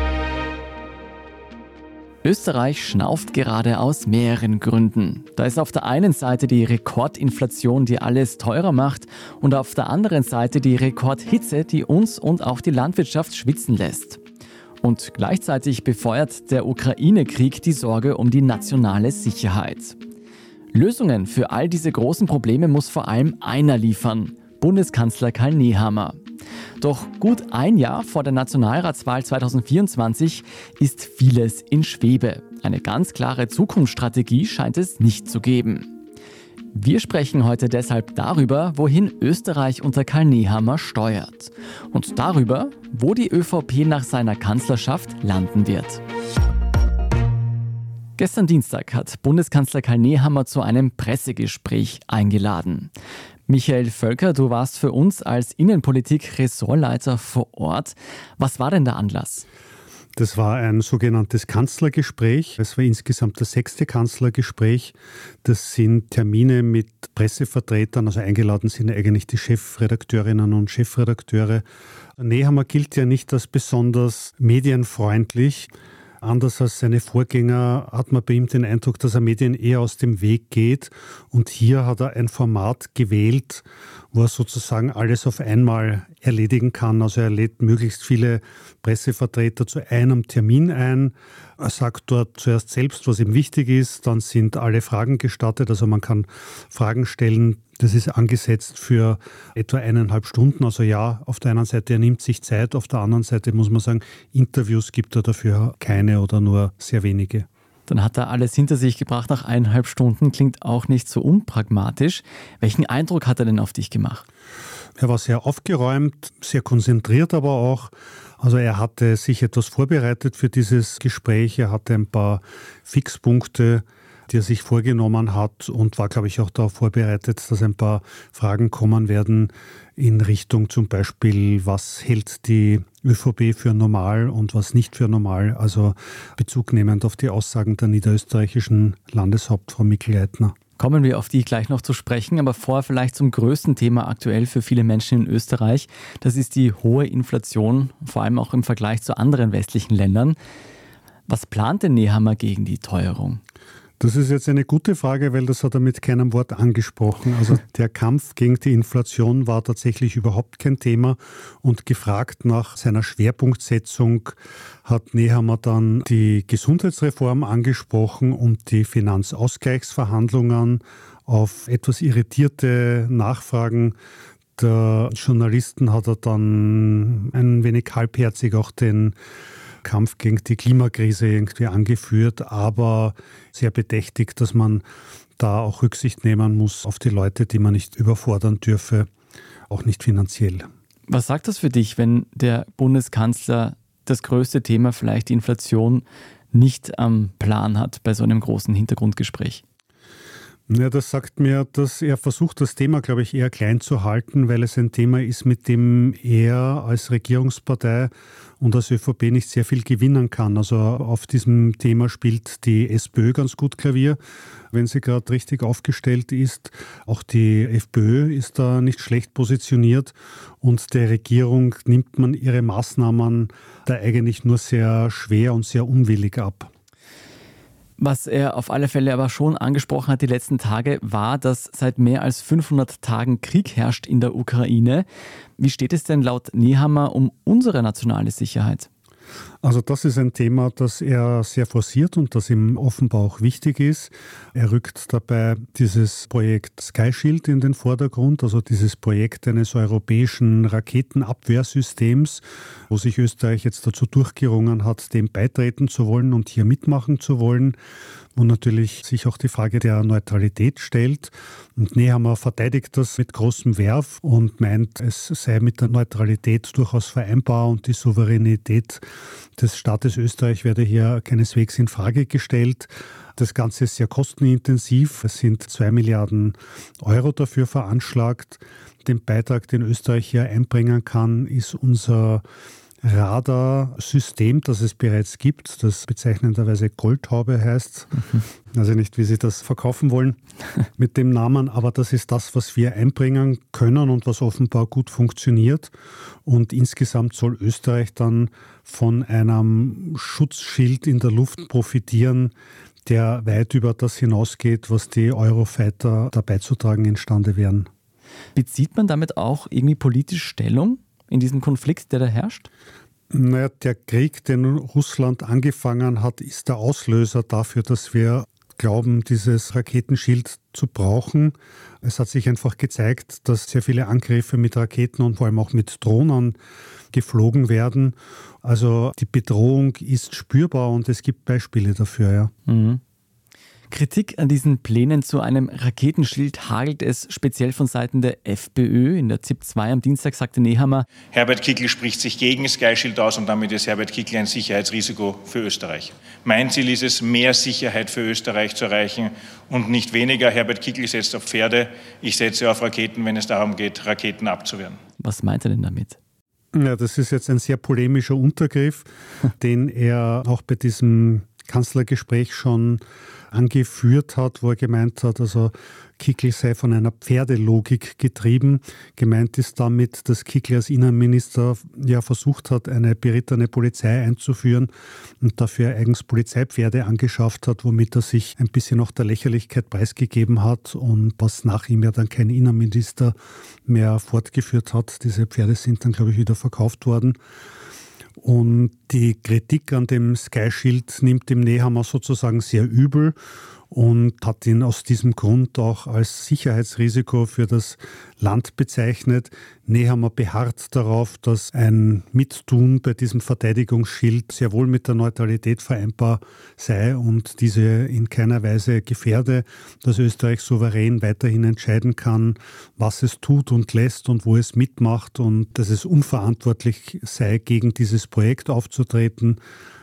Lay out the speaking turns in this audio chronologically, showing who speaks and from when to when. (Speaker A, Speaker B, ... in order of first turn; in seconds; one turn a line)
Speaker A: 2.2-14.2
Speaker A: 14.8-20.0
Speaker A: 20.7-26.2
Speaker A: 26.8-35.9
Speaker A: 36.7-46.0
Speaker A: 48.2-52.9
Speaker A: 53.5-59.5
Speaker B: 60.2-71.7
Speaker B: 72.2-75.7
Speaker B: 76.2-107.5
Speaker A: 107.9-114.2
Speaker B: 115.0-140.6
Speaker A: 140.8-150.4
Speaker A: 151.3-153.4
Speaker B: 154.0-173.9
Speaker B: 174.6-179.2
Speaker B: 179.8-184.8
Speaker B: 185.4-189.1
Speaker B: 189.7-190.7
Speaker A: 191.1-199.6
Speaker B: 200.7-214.2
Speaker B: 214.7-226.7
Speaker A: 228.0-235.1
Speaker A: 235.6-238.9
Speaker B: 239.6-257.8
Speaker B: 258.4-269.0
Speaker B: 269.6-282.4
Speaker B: 283.0-288.1
Speaker B: 288.7-290.4
Speaker B: 291.0-295.9
Speaker B: 296.4-302.5
Speaker B: 303.1-307.9
Speaker A: 308.6-312.7
Speaker B: 313.3-326.6
Speaker B: 327.1-332.5
Speaker A: 332.7-333.0
Speaker A: 333.9-341.1
Speaker C: 341.3-355.0
Speaker A: 355.2-356.2
Speaker B: 356.7-359.1
Speaker B: 359.6-387.4
Speaker B: 388.4-393.4
Speaker B: 393.9-419.6